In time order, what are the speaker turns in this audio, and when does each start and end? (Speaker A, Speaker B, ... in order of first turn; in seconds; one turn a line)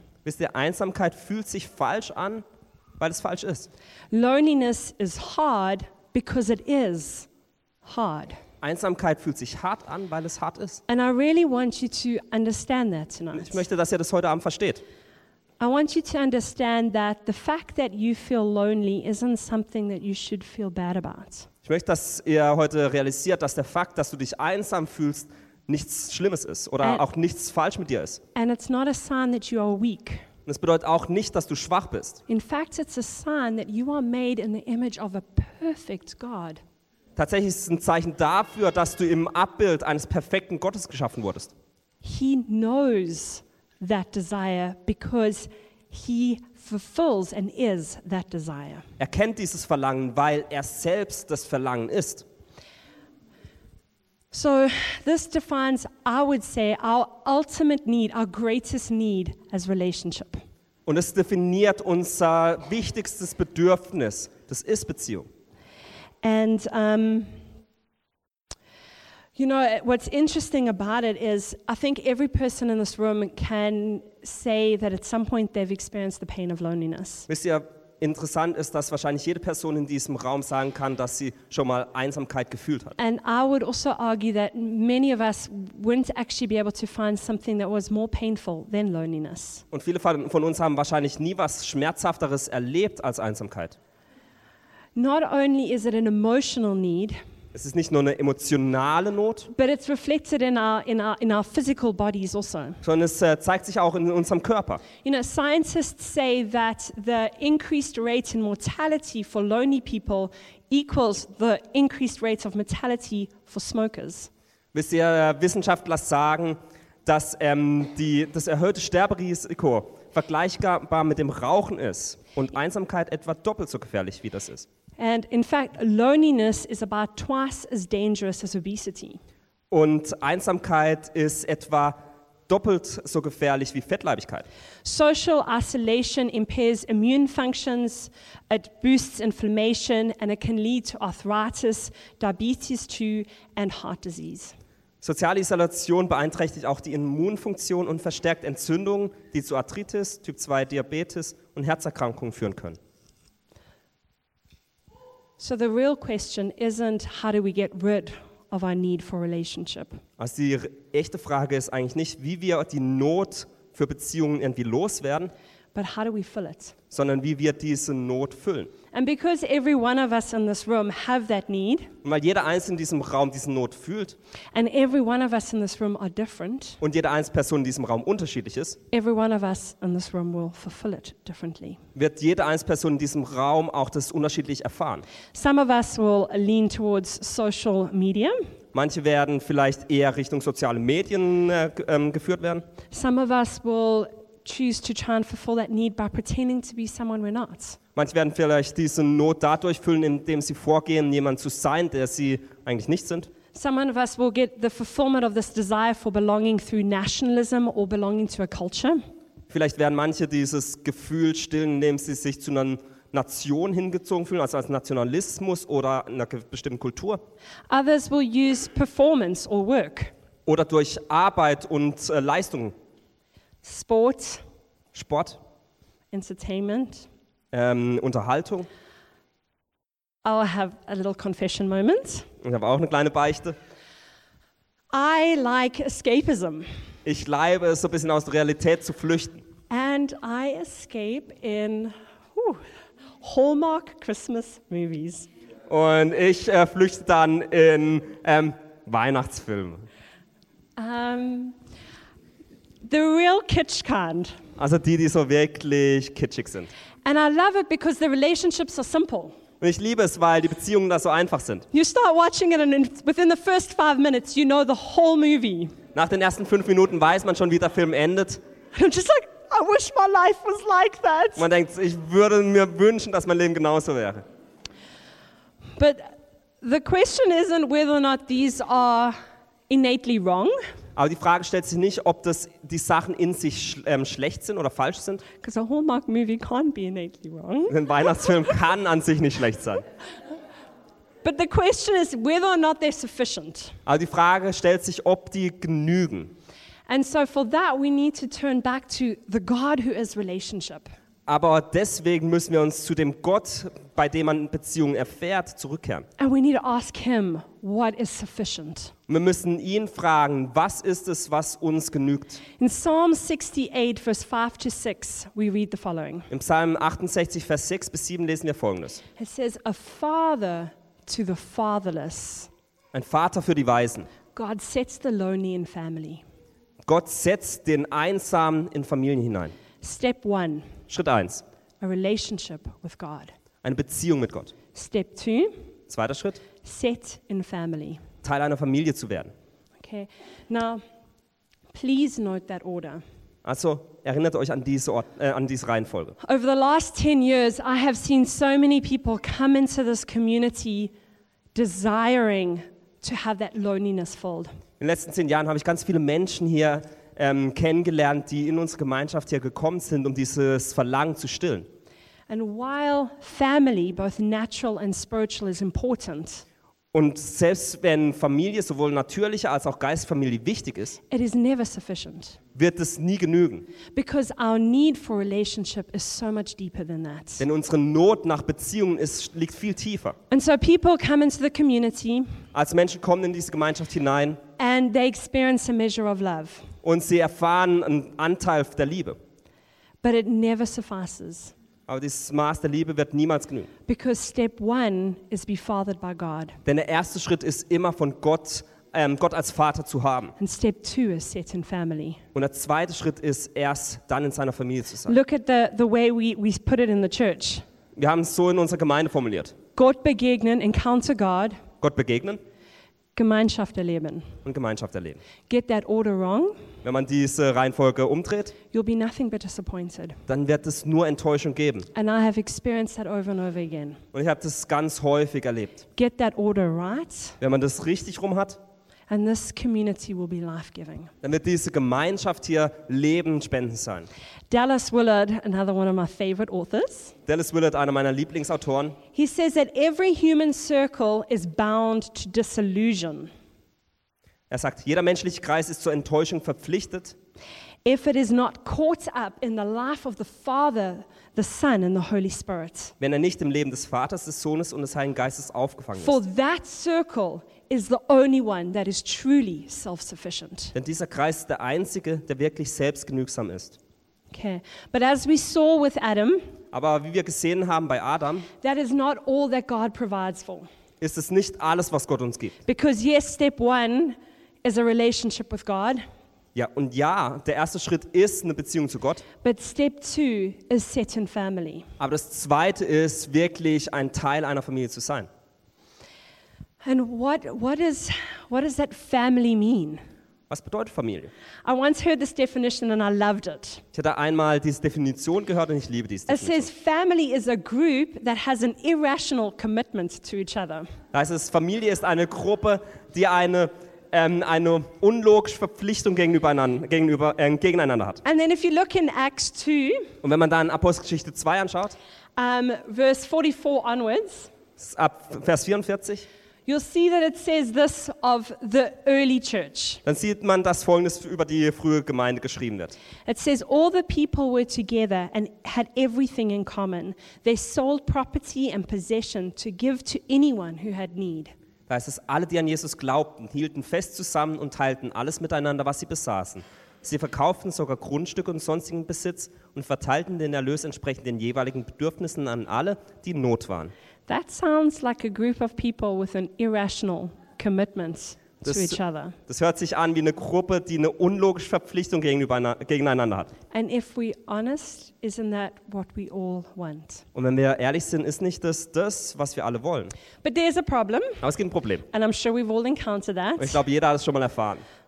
Speaker A: 0.2-2.4
Speaker A: 3.0-3.7
Speaker B: 4.1-7.3
Speaker B: 7.8-8.4
Speaker A: 8.6-10.8
Speaker B: 10.9-13.6
Speaker A: 13.3-14.8
Speaker B: 15.6-21.5
Speaker A: 21.6-28.2
Speaker B: 28.3-30.2
Speaker A: 30.4-32.2
Speaker B: 32.3-36.6
Speaker A: 37.1-41.5
Speaker B: 42.0-48.8
Speaker A: 49.0-52.2
Speaker B: 54.3-60.4
Speaker A: 60.9-65.3
Speaker B: 66.2-67.3
Speaker B: 69.3-77.3
Speaker A: 77.3-83.0
Speaker B: 83.0-89.6
Speaker A: 89.7-93.8
Speaker B: 95.0-97.2
Speaker A: 97.5-99.5
Speaker B: 99.5-102.8
Speaker A: 102.8-104.8
Speaker B: 105.0-114.3
Speaker A: 114.7-124.7
Speaker B: 125.0-129.2
Speaker A: 129.7-134.4
Speaker B: 134.8-144.5
Speaker A: 145.0-152.8
Speaker B: 155.4-160.0
Speaker A: 160.2-165.3
Speaker B: 165.7-166.7
Speaker A: 166.9-168.7
Speaker B: 168.9-171.9
Speaker A: 172.0-174.2
Speaker B: 174.5-176.8
Speaker A: 176.8-178.8
Speaker B: 178.9-181.8
Speaker A: 181.9-185.0
Speaker B: 185.3-188.4
Speaker A: 188.7-192.6
Speaker B: 192.9-197.8
Speaker A: 197.9-203.3
Speaker B: 203.5-209.0
Speaker A: 209.5-217.2
Speaker B: 217.7-220.1
Speaker A: 220.4-222.7
Speaker B: 223.6-224.4
Speaker A: 224.9-225.4
Speaker B: 226.1-227.1
Speaker A: 227.5-228.7
Speaker B: 230.2-232.3
Speaker A: 232.4-233.6
Speaker B: 234.9-236.7
Speaker A: 237.0-239.4
Speaker B: 239.7-242.6
Speaker B: 243.2-245.3
Speaker A: 245.7-249.9
Speaker B: 250.8-251.6
Speaker B: 252.8-254.4
Speaker A: 254.6-256.7
Speaker B: 257.0-259.3
Speaker A: 259.6-261.7
Speaker B: 261.7-265.7
Speaker A: 265.9-268.4
Speaker B: 268.7-271.4
Speaker A: 271.4-274.2
Speaker B: 275.8-279.1
Speaker B: 279.7-280.5
Speaker A: 280.9-285.2
Speaker B: 285.4-287.8
Speaker A: 287.7-289.8
Speaker B: 291.2-293.8
Speaker A: 293.9-296.3
Speaker B: 296.9-300.9
Speaker A: 301.3-306.1
Speaker B: 306.2-308.9
Speaker A: 309.1-312.4
Speaker B: 312.6-316.3
Speaker A: 316.3-319.0
Speaker B: 319.1-322.5
Speaker A: 322.9-324.1
Speaker B: 324.3-326.2
Speaker A: 326.8-329.5
Speaker B: 329.8-330.7
Speaker A: 330.9-331.4
Speaker B: 331.8-333.3
Speaker A: 333.6-334.5
Speaker B: 334.7-335.5
Speaker A: 335.9-336.4
Speaker B: 336.6-338.0
Speaker A: 338.2-339.3
Speaker B: 339.8-340.8
Speaker B: 341.7-343.0
Speaker A: 343.4-346.1
Speaker B: 346.2-350.9
Speaker B: 351.5-354.5
Speaker A: 354.8-361.7
Speaker B: 362.3-366.4
Speaker A: 366.9-371.0
Speaker B: 371.1-372.4
Speaker A: 372.5-373.6
Speaker B: 373.9-377.4
Speaker A: 377.4-380.1
Speaker B: 380.3-382.4
Speaker A: 382.5-384.4
Speaker B: 384.6-386.7
Speaker A: 386.8-389.2
Speaker B: 390.0-391.5
Speaker A: 391.9-393.7
Speaker B: 393.9-396.6
Speaker A: 396.6-400.3
Speaker B: 400.4-402.2
Speaker A: 402.3-405.2
Speaker B: 405.1-407.6
Speaker A: 407.9-409.5
Speaker B: 409.8-411.6
Speaker A: 411.8-412.4
Speaker B: 413.1-414.3
Speaker A: 414.4-415.2
Speaker B: 415.5-416.6
Speaker A: 416.8-418.5
Speaker B: 418.7-420.2
Speaker A: 420.3-421.9
Speaker B: 421.9-424.0
Speaker A: 424.1-425.8
Speaker B: 425.9-427.4
Speaker A: 427.4-428.6
Speaker B: 429.1-431.1
Speaker A: 431.2-434.1
Speaker B: 434.5-437.1
Speaker A: 437.3-439.0
Speaker B: 439.1-443.3
Speaker A: 444.5-447.1
Speaker B: 447.8-452.9
Speaker A: 453.0-456.2
Speaker B: 456.0-460.7
Speaker A: 460.7-463.8
Speaker B: 464.3-466.4
Speaker A: 466.7-468.5
Speaker B: 468.6-470.7
Speaker A: 471.0-472.6
Speaker B: 472.6-476.0
Speaker A: 476.5-479.2
Speaker B: 479.4-481.9
Speaker A: 482.0-485.3
Speaker B: 486.8-490.0
Speaker A: 490.5-491.3
Speaker B: 491.6-493.8
Speaker A: 493.9-496.7
Speaker B: 496.3-500.9
Speaker A: 501.1-508.2
Speaker B: 508.2-510.1
Speaker A: 510.2-511.9
Speaker B: 512.4-514.5
Speaker A: 514.8-516.2
Speaker B: 516.7-520.0
Speaker A: 520.0-523.0
Speaker B: 523.2-531.5
Speaker A: 531.9-543.9
Speaker B: 544.3-549.4
Speaker A: 548.6-553.5
Speaker B: 553.7-557.2
Speaker A: 557.3-560.1
Speaker B: 560.4-561.4
Speaker A: 561.4-562.0
Speaker B: 562.1-563.8
Speaker A: 563.6-564.8